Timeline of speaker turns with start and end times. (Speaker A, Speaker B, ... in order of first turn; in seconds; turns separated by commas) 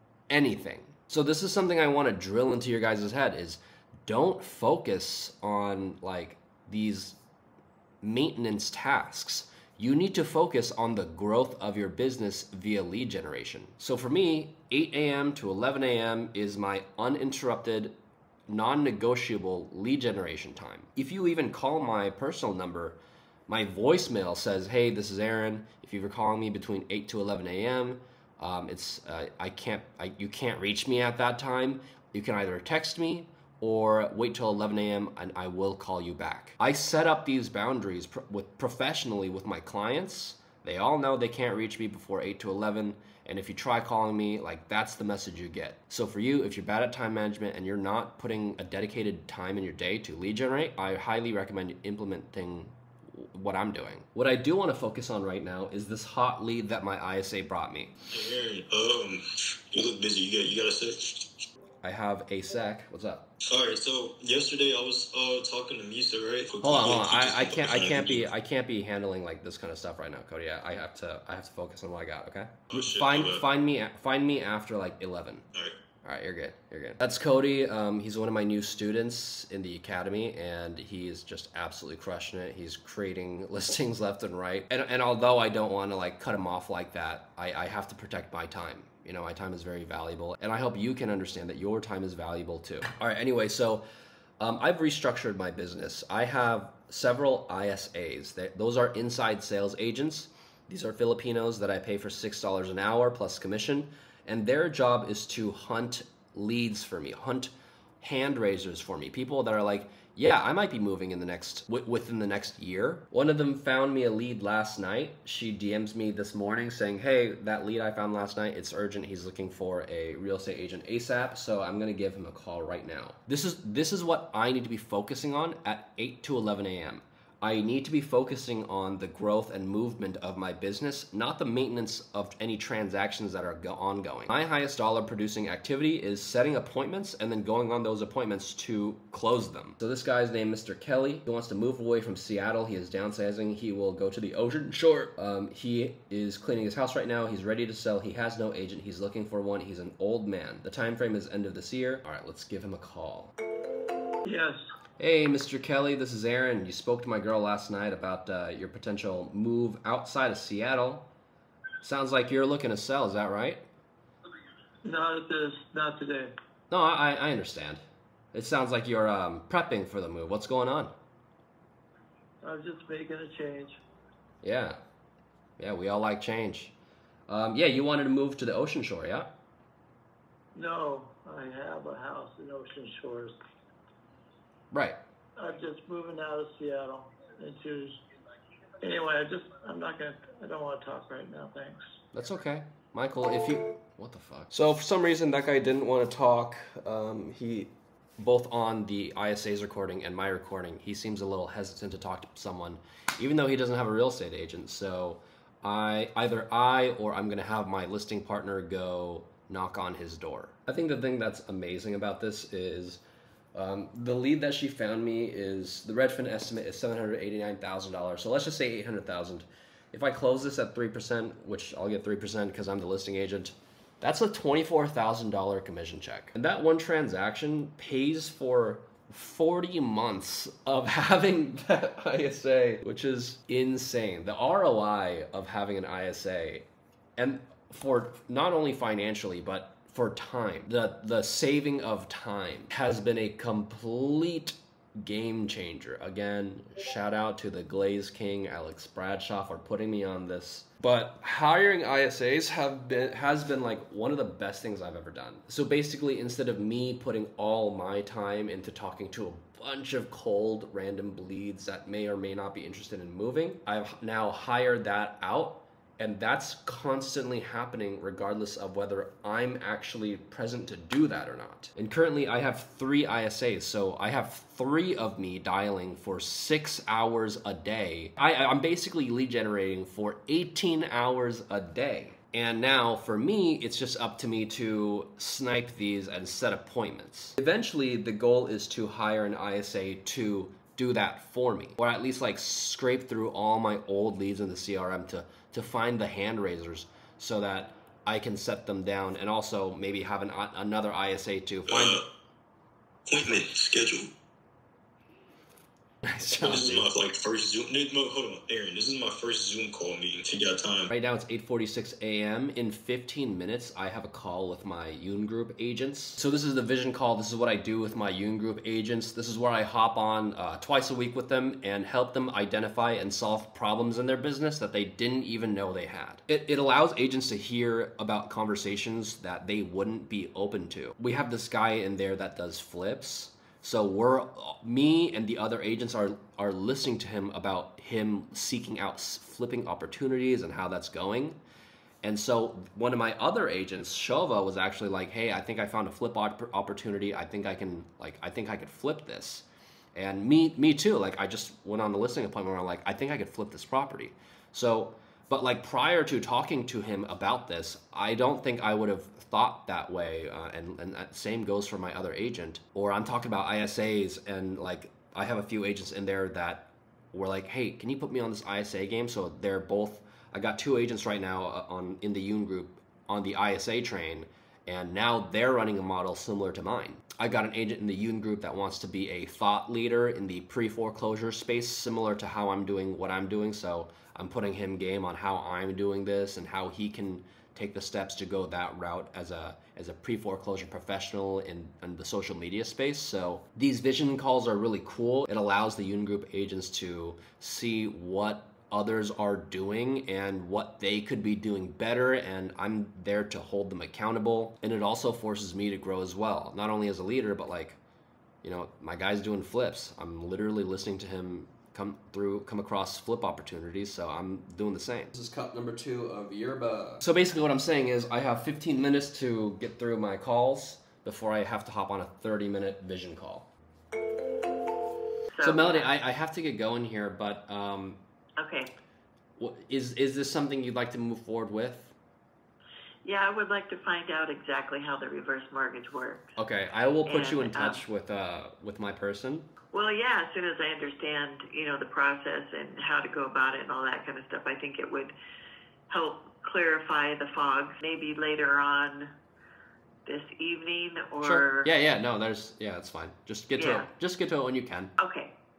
Speaker A: 0.3-7.2, Speaker A: 8.0-17.9, Speaker A: 18.5-23.0, Speaker A: 23.5-57.9, Speaker B: 58.1-61.5, Speaker A: 61.8-63.2, Speaker B: 63.4-68.3, Speaker A: 66.6-75.5, Speaker B: 72.7-73.5, Speaker A: 76.0-93.8, Speaker A: 94.4-153.3, Speaker C: 154.2-154.6, Speaker A: 155.0-161.1, Speaker A: 161.8-163.6, Speaker C: 164.8-166.3, Speaker A: 166.7-167.8, Speaker A: 168.3-170.9, Speaker C: 172.4-173.8, Speaker A: 174.4-174.8, Speaker A: 175.6-176.7, Speaker A: 177.3-179.3, Speaker C: 180.5-183.3, Speaker A: 184.7-185.0, Speaker C: 185.4-188.0, Speaker C: 188.8-191.8, Speaker A: 192.1-213.0, Speaker A: 213.5-236.7, Speaker A: 237.2-302.0, Speaker B: 301.7-302.1, Speaker B: 303.1-304.1, Speaker A: 306.0-306.9, Speaker B: 306.4-310.9, Speaker A: 310.9-341.4, Speaker A: 342.0-407.8, Speaker A: 408.4-423.5, Speaker D: 425.3-425.9, Speaker A: 425.4-428.0, Speaker D: 428.4-428.7, Speaker A: 429.4-431.9, Speaker D: 433.0-436.3, Speaker A: 436.4-439.5, Speaker D: 437.1-437.8, Speaker D: 439.7-445.1, Speaker D: 445.9-449.1, Speaker D: 450.1-451.7, Speaker A: 451.2-454.9, Speaker D: 453.6-453.9, Speaker D: 455.0-455.3